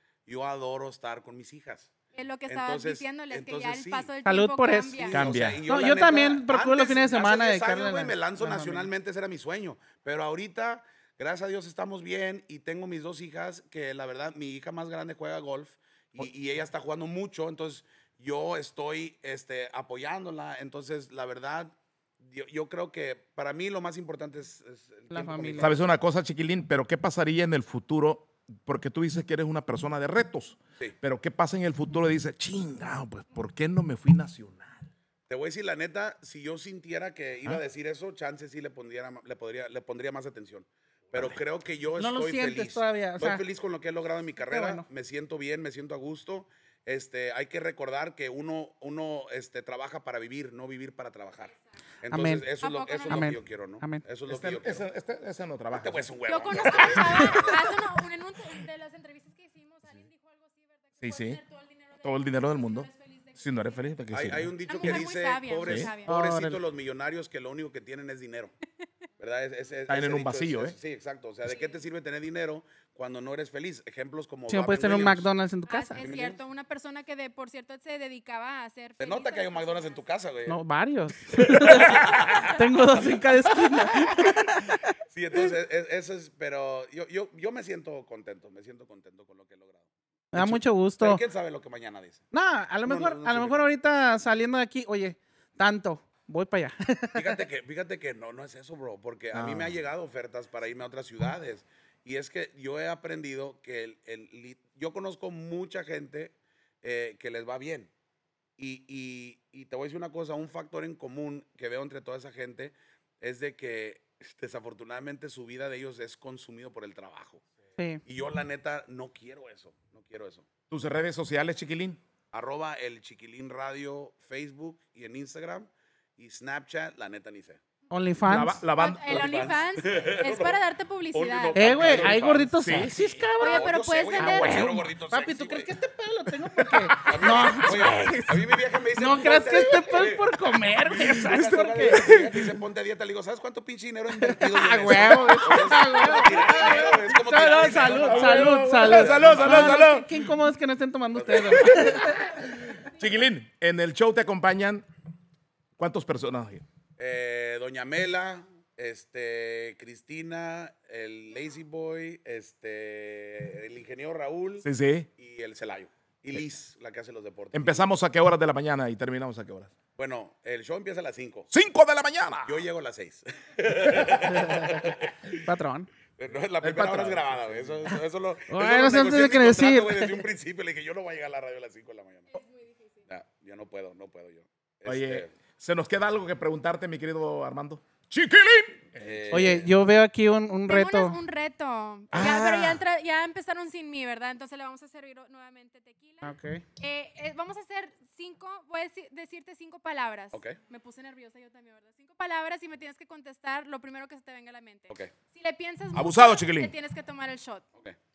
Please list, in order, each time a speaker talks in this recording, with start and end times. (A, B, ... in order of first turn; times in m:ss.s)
0:00.2-0:01.9 A
0:02.1-0:05.3 B
0:02.5-0:04.1 A
0:04.2-0:05.1 C
0:05.0-0:25.8 A
0:05.1-0:05.6 D
0:05.6-0:08.9 C
0:25.1-0:25.7 C
0:25.6-0:34.9 D
0:35.3-0:54.8 A
0:42.0-0:43.4 C
0:44.4-0:44.8 C
0:52.1-0:52.5 C
0:52.6-0:53.4 B
0:53.1-0:54.0 C
0:54.3-0:56.1 D
0:55.7-0:57.8 A
0:56.3-1:03.7 B
1:01.0-1:01.4 D
1:02.0-1:05.0 D
1:04.1-1:08.5 A
1:04.7-1:06.1 B
1:05.6-1:05.9 D
1:06.1-1:06.6 C
1:09.2-1:15.3 A
1:09.9-1:10.8 D
1:11.5-1:11.8 B
1:14.5-1:16.0 C
1:15.7-1:20.0 B
1:16.0-1:16.4 A
1:19.0-1:20.6 A
1:20.5-1:24.8 C
1:21.5-1:22.6 A
1:22.1-1:22.5 B
1:25.1-1:32.2 A
1:30.3-1:31.2 C
1:32.3-1:37.3 C
1:32.8-1:33.7 A
1:37.1-1:47.9 A
1:39.3-1:39.8 D
1:48.6-1:57.4 A
1:58.0-2:00.5 A
2:00.7-2:02.0 D
2:02.3-2:07.6 A
2:07.9-2:08.6 C
2:08.3-2:09.5 D
2:08.8-2:12.2 B
2:09.1-2:10.6 A
2:11.1-2:15.7 A
2:11.5-2:22.2 C
2:12.6-2:13.0 D
2:13.4-2:14.8 B
2:16.6-2:17.4 D
2:17.0-2:29.8 A
2:21.0-2:22.4 D
2:24.2-2:32.7 C
2:28.0-2:30.3 D
2:31.1-2:32.2 A
2:31.6-2:34.8 D
2:35.8-2:36.6 D
2:37.0-2:47.9 A
2:44.6-2:45.1 D
2:47.5-2:49.7 D
2:50.0-2:51.5 A
2:51.5-2:52.6 D
2:52.4-2:55.4 A
2:54.1-2:55.9 C
2:56.2-3:02.3 A
2:56.6-2:57.9 D
2:58.5-3:00.2 C
3:02.3-3:03.0 B
3:03.1-3:05.3 A
3:04.8-3:09.4 D
3:09.0-3:09.7 A
3:09.3-3:11.2 C
3:10.7-3:27.6 B
3:12.1-3:12.8 D
3:16.2-3:16.6 C
3:25.9-3:26.7 D